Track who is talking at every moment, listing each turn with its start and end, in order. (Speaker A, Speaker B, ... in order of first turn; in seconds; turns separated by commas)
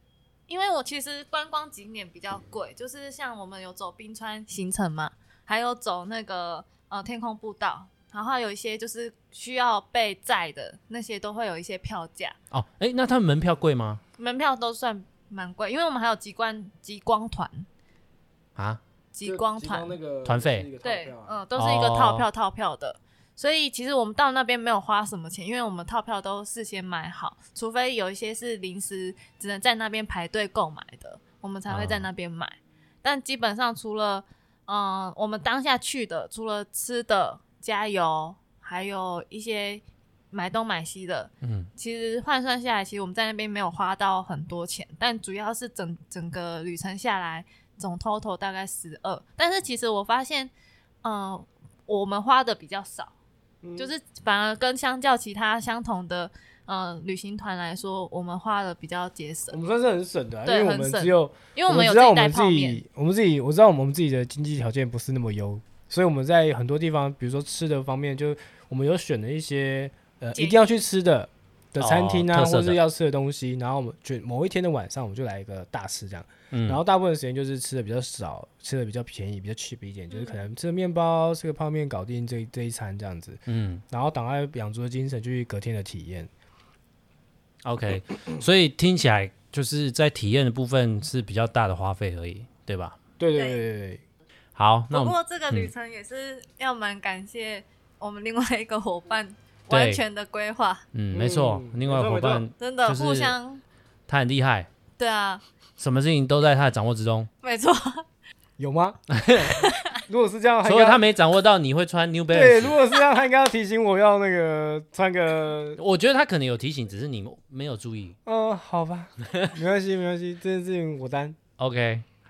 Speaker A: 0.5-12.4, Speaker B: 12.5-14.0, Speaker A: 14.2-17.7, Speaker B: 18.6-18.8, Speaker A: 19.1-20.0, Speaker C: 19.2-21.4, Speaker B: 20.2-20.7, Speaker A: 20.8-50.5, Speaker B: 21.6-22.3, Speaker B: 31.7-32.1, Speaker B: 41.4-41.7, Speaker A: 51.0-53.1, Speaker C: 53.6-53.9, Speaker A: 53.8-59.6, Speaker C: 59.5-86.3, Speaker A: 60.5-62.8, Speaker A: 70.3-70.6, Speaker B: 71.8-72.8, Speaker B: 76.5-76.8, Speaker A: 80.1-80.4, Speaker B: 83.5-83.8, Speaker B: 87.6-93.0, Speaker C: 93.2-94.0, Speaker A: 93.3-93.6, Speaker B: 94.6-95.7, Speaker A: 94.9-100.8, Speaker B: 99.7-100.0, Speaker B: 100.9-103.3, Speaker C: 101.1-102.5, Speaker A: 102.6-103.6, Speaker B: 104.1-104.7, Speaker A: 105.0-105.4, Speaker B: 105.8-107.3, Speaker A: 107.4-108.0, Speaker C: 108.6-109.0, Speaker B: 109.1-109.6, Speaker A: 109.5-110.0, Speaker C: 110.0-111.0, Speaker B: 110.7-112.8, Speaker C: 112.3-115.8, Speaker B: 115.8-118.2, Speaker C: 118.3-121.4, Speaker B: 119.2-119.5, Speaker B: 121.6-122.1